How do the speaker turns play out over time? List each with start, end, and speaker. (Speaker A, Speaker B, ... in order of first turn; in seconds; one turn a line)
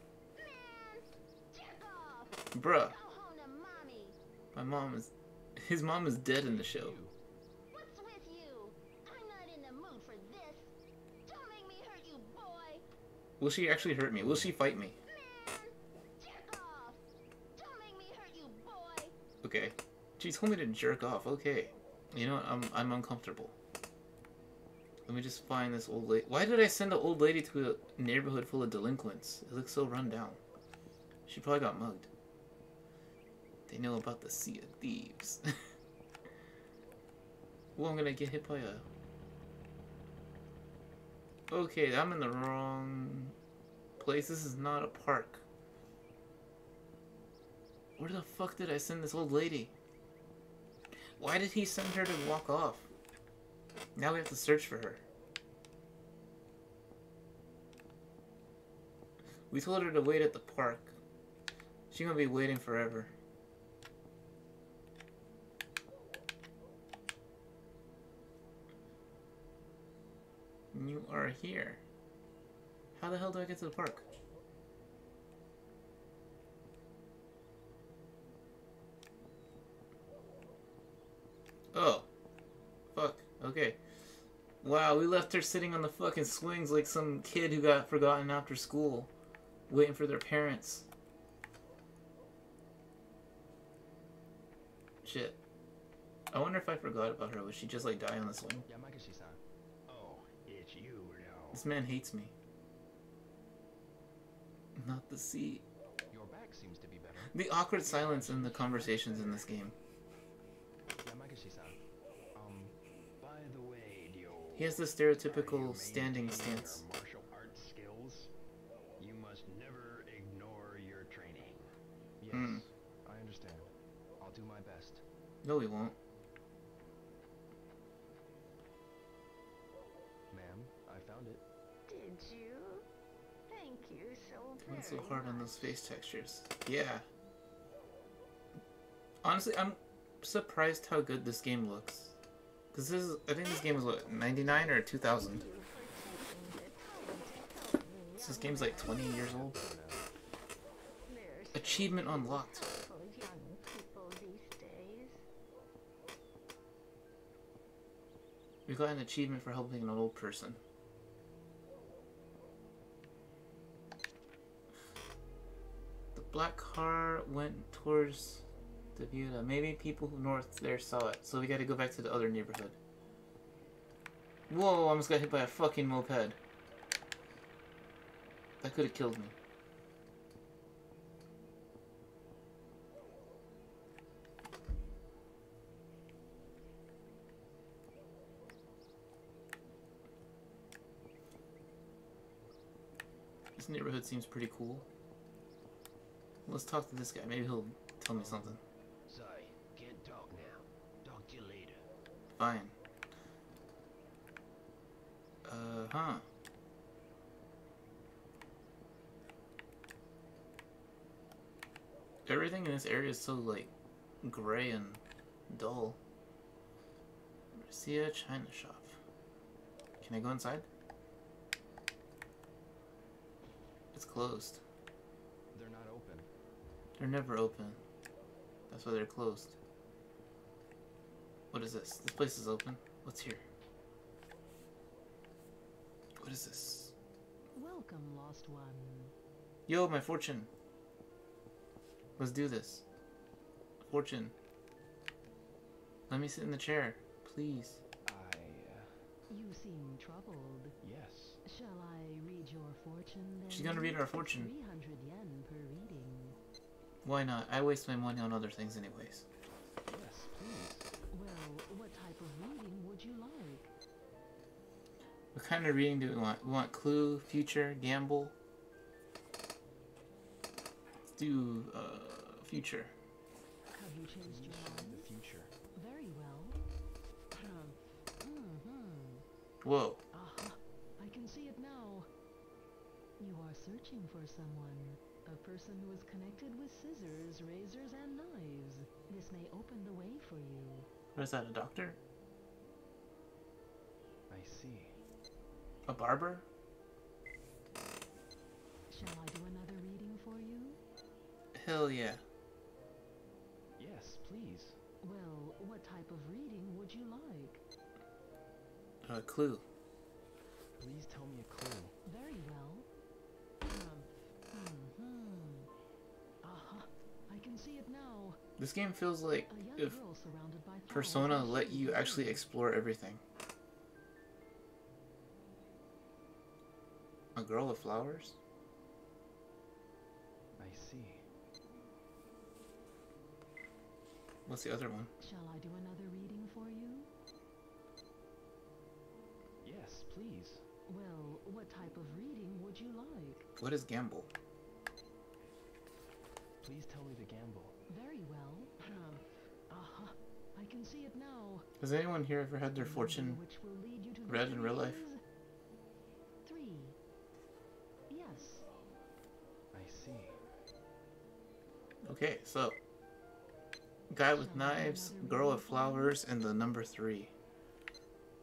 Speaker A: 0.4-4.2
Speaker B: 2.5-3.0
Speaker B: 4.5-7.0
Speaker C: 6.4-7.2
Speaker A: 7.7-10.7
Speaker A: 11.3-12.8
Speaker B: 13.4-15.0
Speaker C: 14.2-14.5
Speaker A: 15.1-17.0
Speaker A: 17.6-19.1
Speaker B: 19.4-23.6
Speaker B: 25.1-30.4
Speaker B: 31.3-32.1
Speaker B: 33.7-35.7
Speaker B: 37.8-38.9
Speaker B: 41.5-43.4
Speaker B: 44.0-45.4
Speaker B: 48.0-49.8
Speaker B: 51.2-52.9
Speaker B: 54.0-55.0
Speaker B: 59.5-61.0
Speaker B: 61.9-63.1
Speaker B: 70.7-71.8
Speaker B: 73.0-74.1
Speaker B: 81.7-82.1
Speaker B: 82.9-83.8
Speaker B: 84.6-89.1
Speaker B: 89.7-90.9
Speaker B: 95.0-95.4
Speaker B: 96.3-98.7
Speaker C: 98.7-99.4
Speaker D: 99.9-101.6
Speaker B: 101.5-102.3
Speaker B: 104.8-105.7
Speaker C: 106.1-109.5
Speaker B: 107.2-109.8
Speaker C: 111.0-111.8
Speaker C: 112.3-112.8
Speaker D: 113.2-118.3
Speaker B: 114.6-116.8
Speaker C: 116.2-116.6
Speaker D: 119.0-121.7
Speaker C: 122.2-125.0
Speaker B: 122.3-122.6
Speaker B: 125.4-126.0
Speaker C: 130.3-131.4
Speaker A: 131.9-132.9
Speaker A: 133.5-135.8
Speaker B: 134.6-137.1
Speaker B: 139.2-142.2
Speaker B: 142.7-145.4
Speaker A: 144.6-149.2
Speaker B: 148.2-149.6
Speaker C: 148.9-150.1
Speaker A: 151.1-155.2
Speaker B: 151.5-152.7
Speaker B: 158.7-160.6
Speaker B: 166.2-172.8
Speaker B: 174.5-176.4
Speaker B: 178.6-179.3
Speaker B: 193.6-194.9
Speaker B: 196.5-198.6
Speaker D: 199.1-201.9
Speaker B: 202.3-202.7
Speaker B: 205.4-206.3
Speaker B: 212.3-213.7
Speaker B: 214.2-216.0
Speaker B: 217.5-219.0
Speaker B: 220.0-220.7
Speaker B: 223.9-224.6
Speaker C: 225.5-226.3
Speaker B: 227.0-227.8
Speaker B: 228.7-229.6
Speaker B: 231.5-233.4
Speaker B: 236.2-236.9
Speaker E: 237.6-239.1
Speaker B: 239.7-240.5
Speaker B: 242.2-242.8
Speaker B: 243.8-244.3
Speaker B: 246.1-247.8
Speaker C: 248.1-249.0
Speaker E: 249.3-250.8
Speaker C: 250.8-251.4
Speaker E: 251.4-256.4
Speaker B: 253.5-254.5
Speaker B: 257.0-259.3
Speaker C: 259.9-260.9
Speaker E: 261.1-263.7
Speaker B: 265.3-268.4
Speaker B: 271.2-272.9
Speaker E: 273.7-275.1
Speaker C: 274.2-275.5
Speaker E: 275.7-276.6
Speaker E: 277.3-279.2
Speaker B: 279.6-280.0
Speaker E: 280.1-282.1
Speaker E: 283.2-290.9
Speaker B: 291.1-292.0
Speaker C: 294.3-295.0
Speaker B: 295.9-296.5
Speaker E: 298.9-300.8
Speaker B: 301.5-302.2
Speaker C: 303.8-304.8
Speaker E: 305.0-307.6
Speaker B: 309.0-309.6
Speaker C: 310.8-312.0
Speaker E: 312.1-312.9
Speaker E: 313.7-315.7
Speaker E: 316.4-318.4
Speaker B: 318.6-320.0
Speaker E: 319.5-322.4
Speaker B: 320.9-323.2
Speaker B: 327.4-328.4
Speaker C: 330.6-331.2
Speaker B: 334.5-335.1
Speaker E: 335.2-337.1
Speaker C: 339.6-340.6
Speaker E: 340.9-343.4
Speaker B: 343.6-344.3
Speaker C: 346.6-347.8
Speaker E: 347.9-351.7
Speaker B: 351.8-353.4
Speaker E: 352.8-355.2
Speaker B: 354.3-355.0
Speaker E: 356.4-357.0
Speaker E: 358.1-358.6
Speaker C: 359.7-360.4
Speaker B: 362.0-362.8
Speaker B: 364.1-367.3
Speaker E: 364.3-366.2